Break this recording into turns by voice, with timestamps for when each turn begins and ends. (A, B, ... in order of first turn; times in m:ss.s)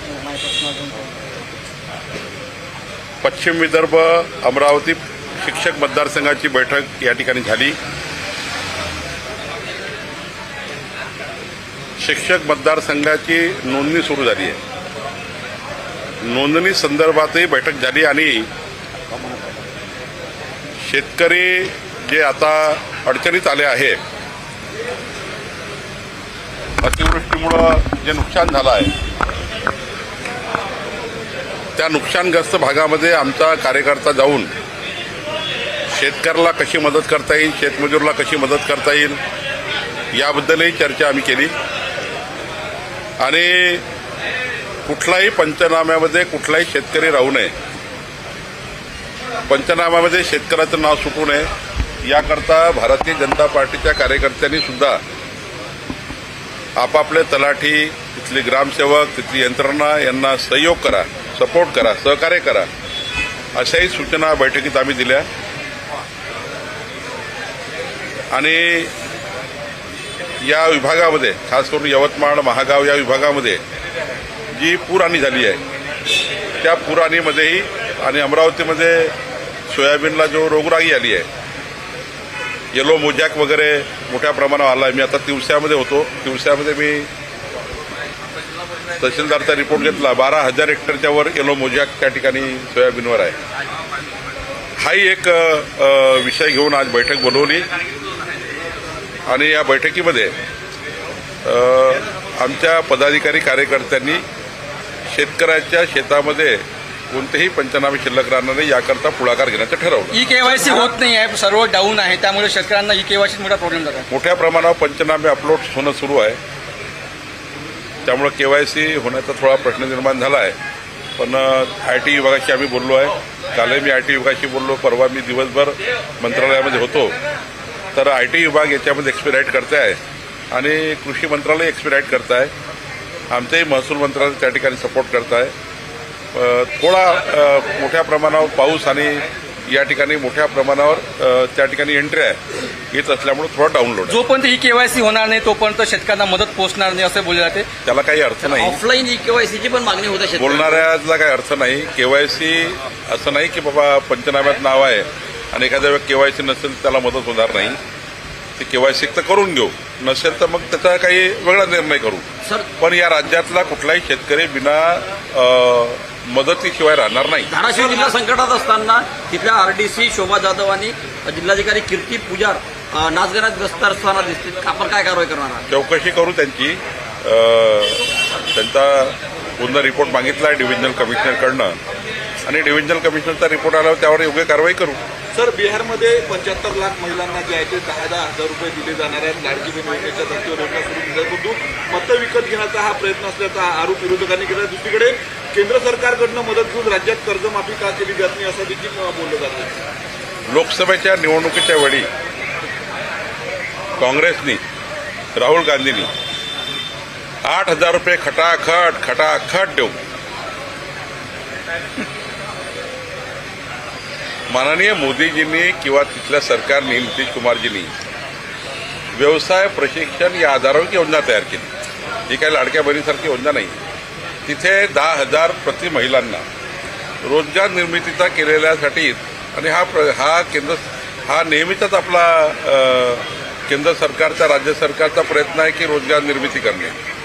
0:00.1-0:01.0 A
0:03.2-0:07.8 B
0:12.0-0:14.6 B
0:16.2-0:18.5 B
0:20.8-0:24.0 B
0:26.8-0:28.9 B
0:31.8-0:34.5 B
0:35.9-0:39.2 B
0:40.2-0:41.5 B
0:43.2-0:43.8 B
0:44.9-0:47.5 B
0:49.5-0:51.5 B
0:52.0-0:55.0 B
0:56.8-1:02.7 B
1:03.6-1:05.2 B
1:08.3-1:08.9 B
1:10.4-1:13.6 B
1:14.6-1:15.6 B
1:16.6-1:19.1 B
1:19.7-1:21.3 B
1:22.7-1:27.1 B
1:29.0-1:33.4 B
1:34.8-1:37.6 B
1:39.3-1:40.3 B
1:41.4-1:44.2 B
1:45.1-1:50.2 B
1:50.1-1:54.1 A
1:54.1-1:56.4 B
1:58.0-2:00.6 B
2:01.2-2:07.1 B
2:07.9-2:10.0 B
2:10.5-2:12.5 B
2:13.3-2:15.5 B
2:16.3-2:22.4 B
2:22.9-2:24.2 B
2:24.1-2:27.7 A
2:27.8-2:28.8 B
2:28.4-2:30.9 C
2:30.4-2:37.8 B
2:38.6-2:42.2 B
2:42.4-2:42.7 C
2:42.8-2:47.5 B
2:47.5-2:55.7 C
2:47.7-2:48.2 D
2:55.7-3:01.8 B
3:02.4-3:05.0 B
3:05.3-3:19.8 D
3:20.5-3:22.1 B
3:24.0-3:24.6 B
3:25.4-3:26.1 B
3:27.4-3:30.0 B
3:34.5-3:37.9 B
3:39.1-3:41.7 B
3:42.3-3:43.8 B
3:44.5-3:46.4 B
3:47.2-3:57.0 B